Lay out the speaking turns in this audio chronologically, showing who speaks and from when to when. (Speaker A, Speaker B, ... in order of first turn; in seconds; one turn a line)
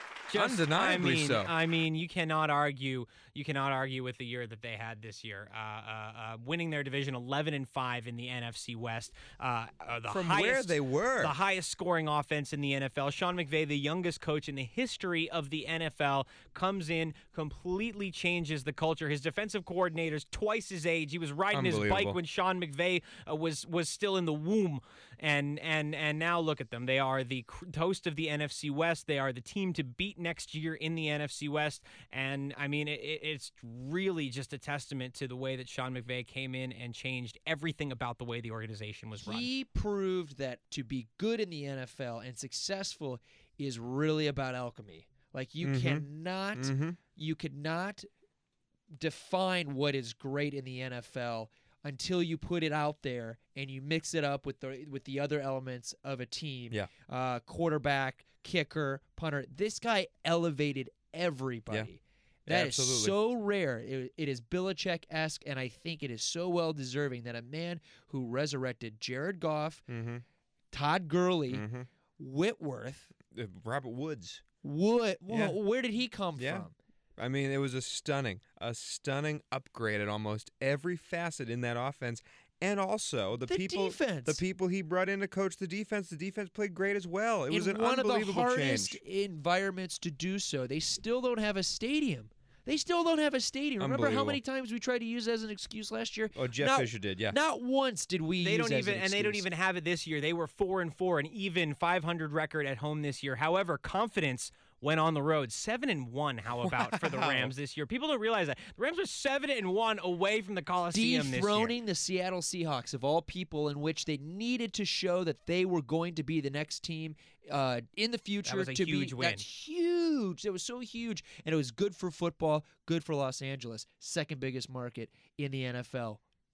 Speaker A: 0.3-39.5
Speaker B: 0.3-1.5
Speaker B: 10.1-11.3
Speaker B: 21.5-22.2
Speaker C: 39.2-48.1
Speaker B: 45.6-47.0
Speaker C: 49.0-69.8
Speaker B: 62.5-63.1
Speaker B: 69.9-70.2
Speaker C: 70.7-71.7
Speaker B: 71.5-71.9
Speaker C: 72.2-73.1
Speaker B: 73.3-74.4
Speaker C: 74.6-76.7
Speaker B: 75.3-75.6
Speaker B: 76.4-76.7
Speaker B: 77.2-89.0
Speaker C: 83.5-84.4
Speaker C: 87.5-99.4
Speaker B: 93.8-94.4
Speaker B: 96.3-97.3
Speaker A: 98.4-111.8
Speaker B: 106.6-107.5
Speaker C: 110.9-126.2
Speaker A: 118.4-119.4